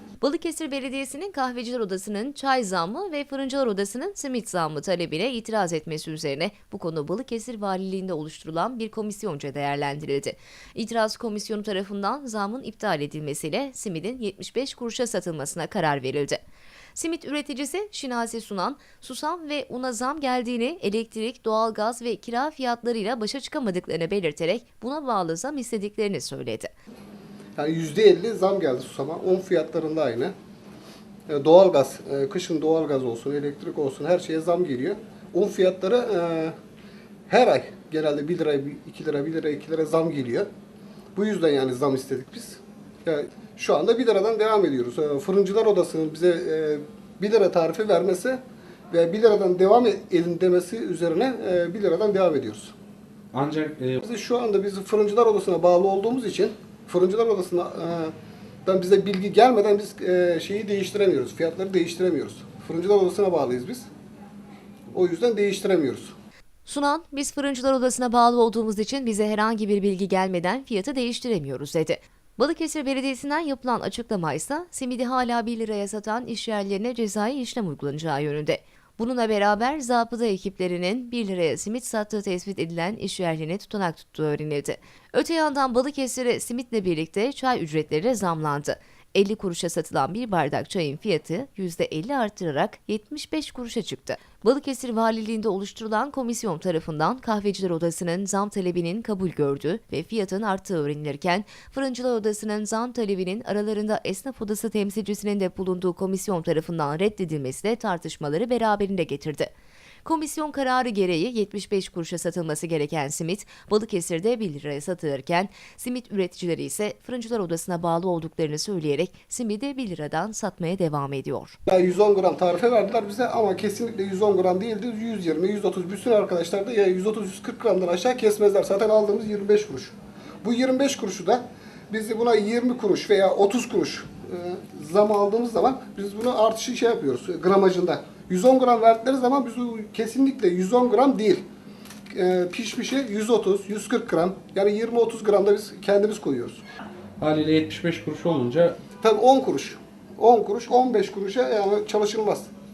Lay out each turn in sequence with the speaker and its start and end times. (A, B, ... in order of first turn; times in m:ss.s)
0:00.2-0:16.4 A
0:16.9-0:26.7 A
0:27.6-0:30.3 B
0:31.3-0:36.5 B
0:37.3-0:40.5 B
0:41.2-0:52.7 B
0:53.3-0:54.0 C
0:54.0-0:58.1 B
0:58.6-1:03.9 B
1:04.9-1:06.1 B
1:06.6-1:49.5 A
1:50.0-2:01.6 A
2:01.7-2:21.4 B
2:22.1-2:26.6 B
2:27.2-2:28.8 C
2:29.0-2:32.5 B